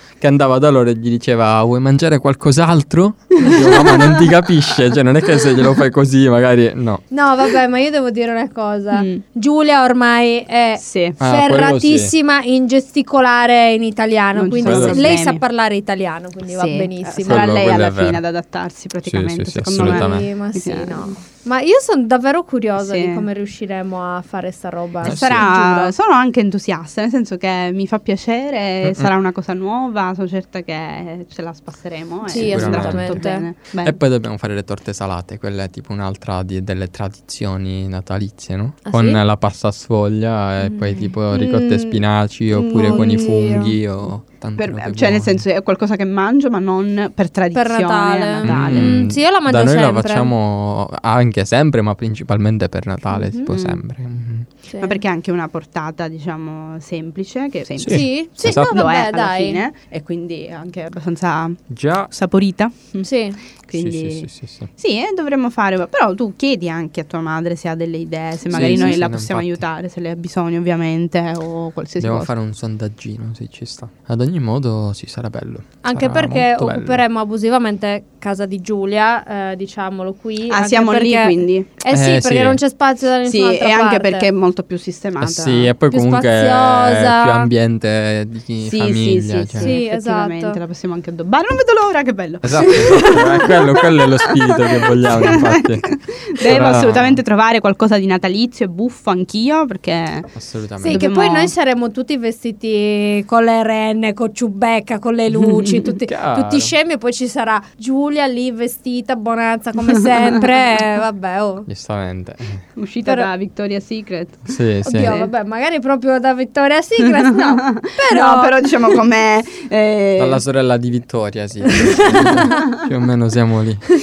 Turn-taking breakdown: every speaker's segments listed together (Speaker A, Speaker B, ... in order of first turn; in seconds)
Speaker A: 0.2-7.0, 11.2-12.1, 14.6-15.2, 17.2-18.2, 19.1-20.3, 25.0-25.5, 28.8-29.1, 32.4-33.3, 33.8-45.4, 48.4-54.5, 57.8-58.7, 61.7-62.1, 63.7-64.7, 68.5-69.6, 72.0-77.0, 81.9-82.6, 85.2-89.7, 92.4-97.2, 100.3-101.0, 106.0-106.7, 111.7-112.6, 114.5-115.1, 120.2-123.8
Speaker B: 3.4-4.2, 8.9-9.2, 10.8-11.2, 14.3-15.4, 16.4-21.1, 22.8-23.2, 25.0-34.0, 41.0-41.6, 42.5-43.8, 44.6-49.0, 53.5-53.8, 54.8-63.1, 63.6-72.3, 80.5-81.7, 83.2-85.7, 88.6-100.3, 100.9-101.5, 105.3-105.9, 112.8-114.5, 115.0-115.3, 117.0-120.4, 122.1-122.9
Speaker C: 7.1-17.5, 19.8-25.9, 32.2-33.5, 38.9-39.2, 40.6-41.9, 42.7-43.4, 47.5-50.3, 53.1-53.5, 54.7-55.0, 57.9-59.6, 63.0-63.4, 75.8-84.3, 85.9-87.5, 89.6-90.6, 92.7-93.5, 100.8-111.7, 113.0-113.3, 114.8-118.5, 121.7-122.7